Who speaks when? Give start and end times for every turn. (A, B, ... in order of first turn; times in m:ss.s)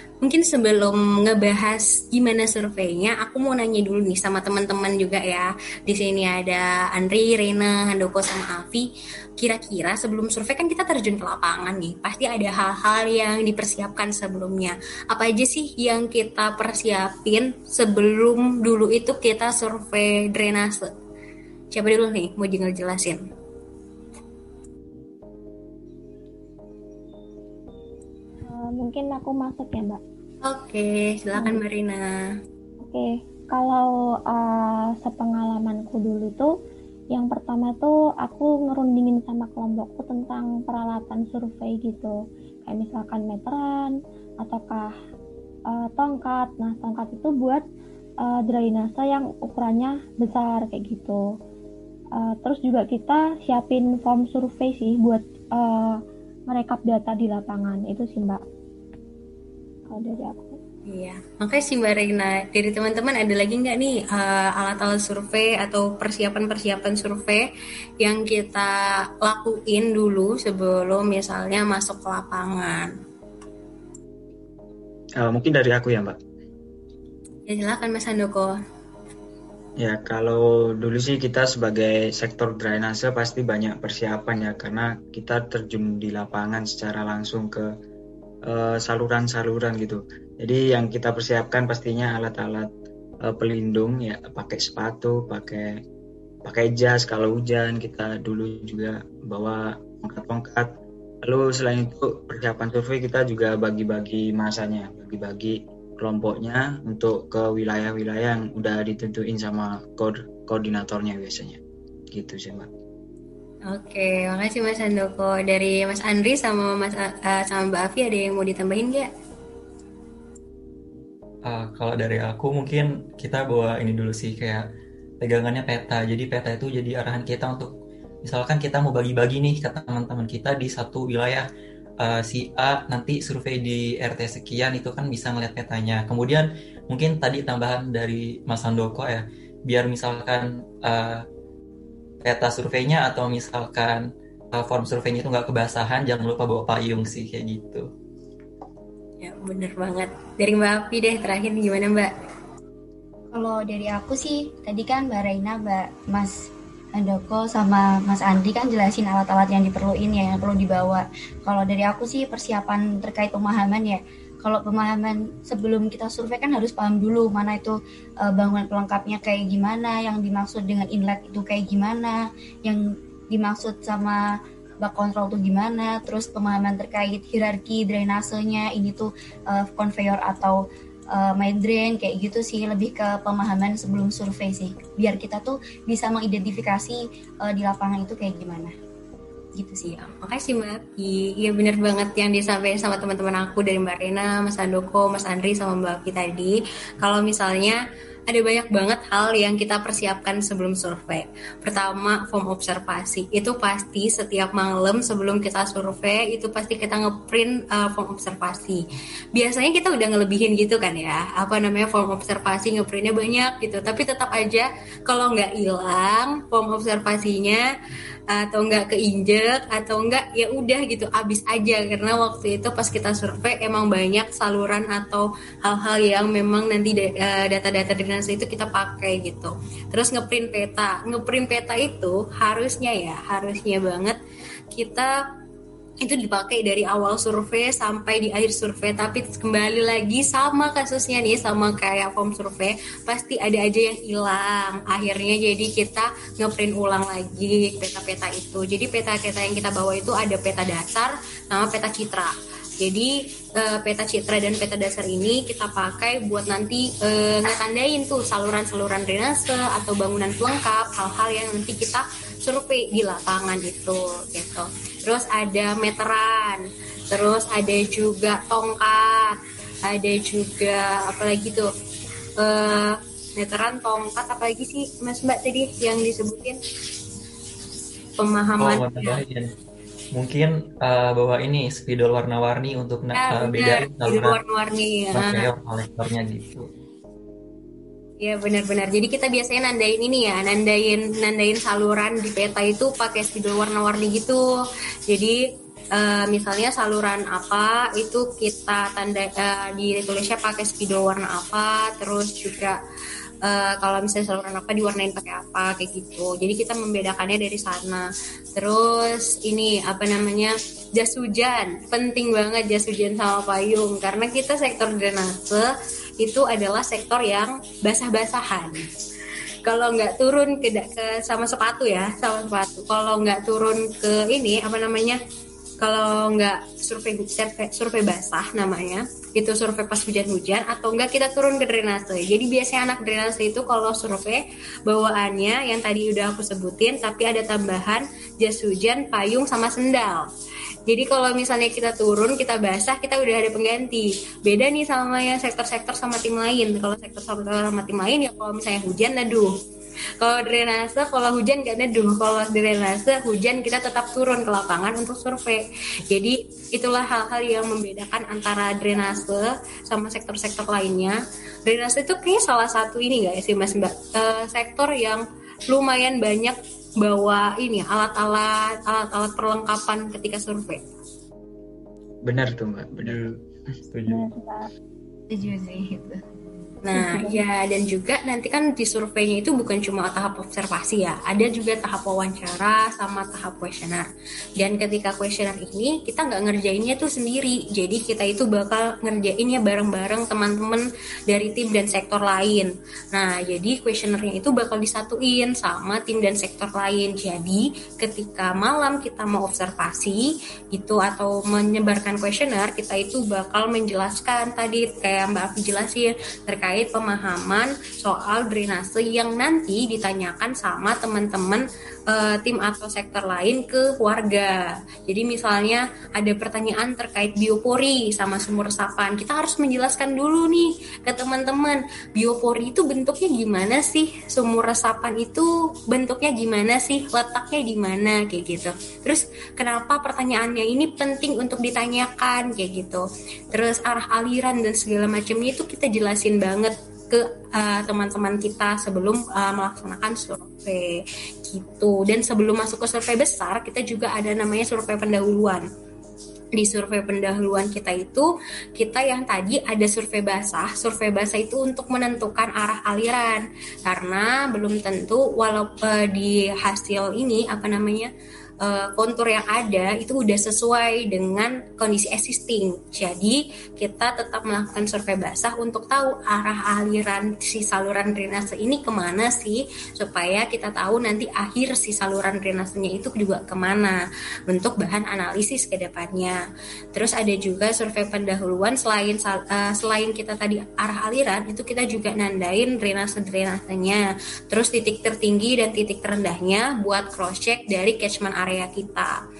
0:00.2-0:20.9 A
0:21.7-0:23.2 A
0:28.5-0:30.0 B
0:30.4-0:32.3 A
0:32.8-0:36.5 B
0:37.1-0:44.9 B
0:45.7-0:47.6 B
0:48.2-0:51.2 B
0:52.2-0:58.4 B
0:59.9-1:00.6 B
1:00.9-1:07.5 A
1:08.0-1:12.9 A
1:15.2-1:16.2 C
1:17.5-1:18.5 A
1:19.8-1:27.7 C
1:28.4-1:32.7 C
1:33.2-1:35.8 C
1:36.4-1:40.7 C
1:41.2-1:51.6 C
1:52.1-1:52.7 C
1:53.7-1:59.1 A
2:01.4-2:04.6 D
2:05.2-2:07.7 D
2:08.2-2:11.4 D
2:12.0-2:21.2 D
2:22.2-2:27.9 D
2:29.2-2:32.1 A
2:33.3-3:00.6 E
3:01.1-3:08.7 E
3:09.6-3:37.6 A
3:38.3-3:54.2 A
3:54.7-3:55.1 A
3:56.0-4:31.7 A
4:32.4-4:36.6 A
4:38.2-4:39.2 A
4:38.6-4:39.5 D
4:40.1-4:44.4 D
4:43.1-4:45.5 A
4:45.1-4:46.7 D
4:48.2-4:54.4 A
4:55.1-4:55.4 A
4:55.9-5:02.8 A
5:03.4-5:15.7 A
5:16.2-5:18.9 A
5:19.6-5:25.2 A
5:25.8-5:40.3 A
5:40.9-5:49.5 A
5:50.2-6:10.8 A
6:12.2-6:13.2 C
6:13.0-6:13.4 D
6:13.9-6:14.2 D
6:14.0-6:14.7 B
6:15.3-6:16.2 E
6:16.8-6:24.1 A
6:16.9-6:17.4 B
6:24.6-7:25.7 A
7:26.6-7:38.1 A
7:38.6-7:56.4 A
7:56.9-8:09.2 A